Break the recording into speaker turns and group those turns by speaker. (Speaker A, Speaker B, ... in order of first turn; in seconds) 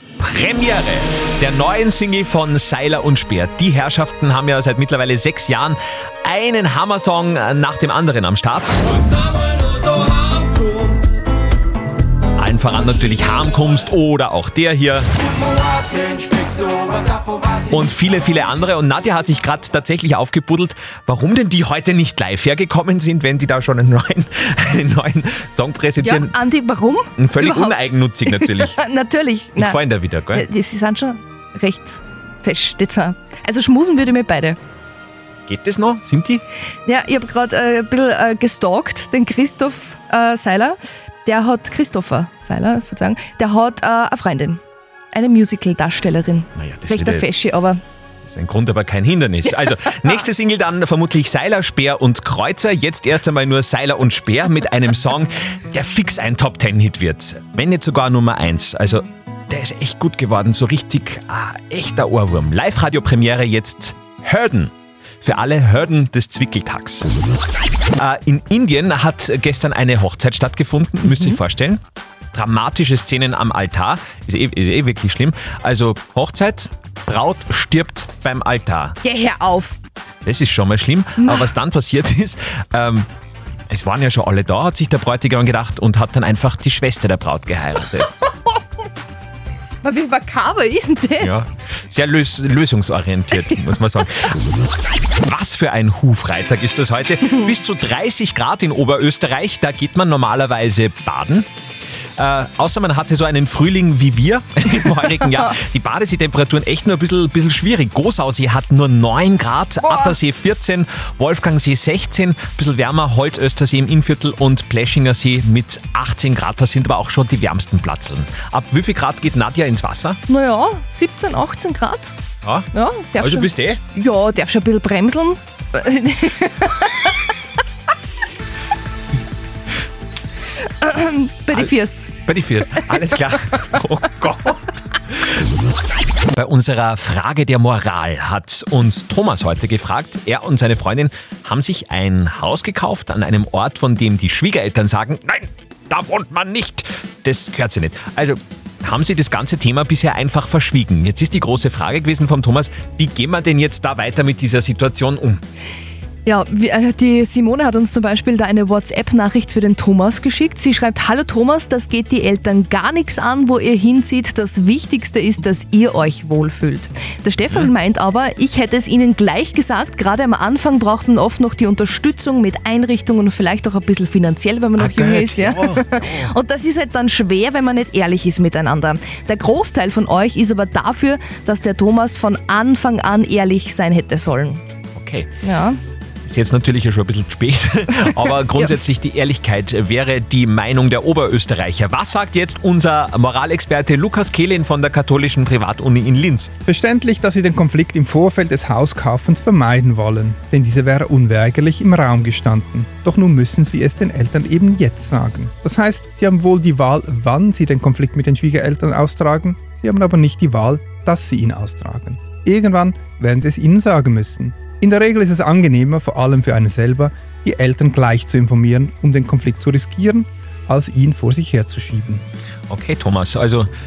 Speaker A: 0.2-8.8, 12.3-15.1, 17.7-26.3, 27.2-28.8, 29.6-30.4, 35.5-36.4, 46.5-47.2, 48.2-67.1, 68.0-71.8, 72.3-79.0, 80.2-83.0, 83.7-88.1, 91.2-94.4, 95.2-101.5, 102.2-120.2, 123.2-123.8, 132.2-135.4, 136.3-155.4, 174.8-176.3, 184.9-185.3, 186.2-196.5, 222.7-223.7
Speaker B: 26.0-29.8, 30.3-34.6, 36.9-44.6, 45.1-47.8, 71.1-71.4, 79.0-79.8, 81.2-81.5, 89.8-91.4, 120.3-122.1, 122.7-127.1, 130.8-132.1, 156.2-184.6, 185.4-185.8
Speaker C: 196.7-222.2